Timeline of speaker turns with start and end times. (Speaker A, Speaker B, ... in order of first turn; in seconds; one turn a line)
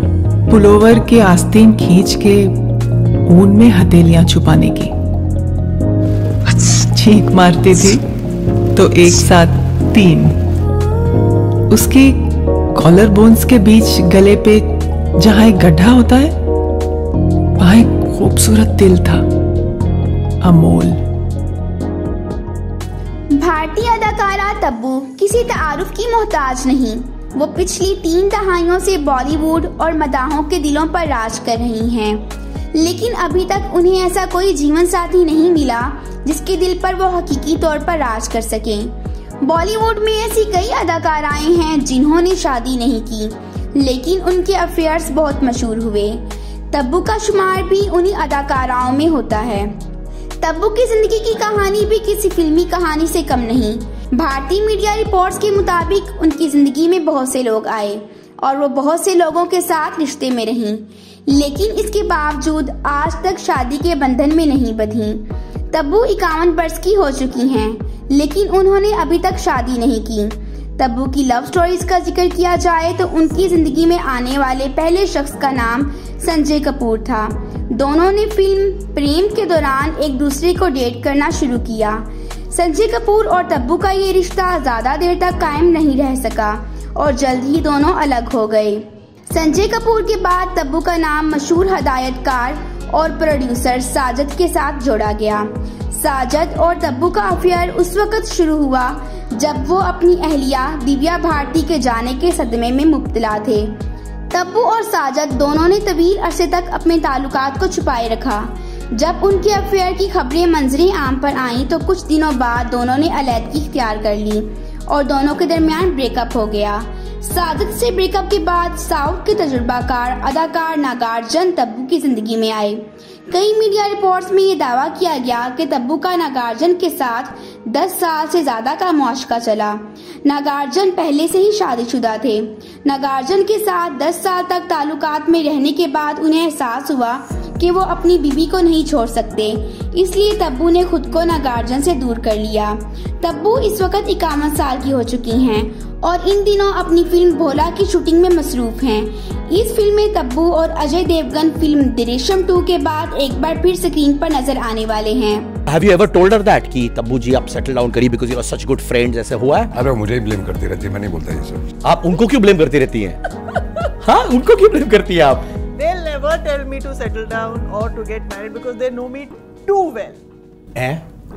Speaker A: 0.5-2.6
Speaker A: 3.3-4.9
Speaker A: 6.6-8.0
Speaker A: 8.7-10.3
Speaker A: 11.7-16.3
Speaker A: 17.6-19.2
Speaker A: 20.4-21.0
Speaker B: 23.4-49.7
Speaker B: 50.4-103.7
Speaker B: 104.3-155.6
Speaker C: 155.7-159.7
Speaker D: 159.7-161.7
Speaker C: 161.8-163.2
Speaker C: 164.0-165.5
Speaker E: 165.8-170.2
Speaker C: 170.8-171.0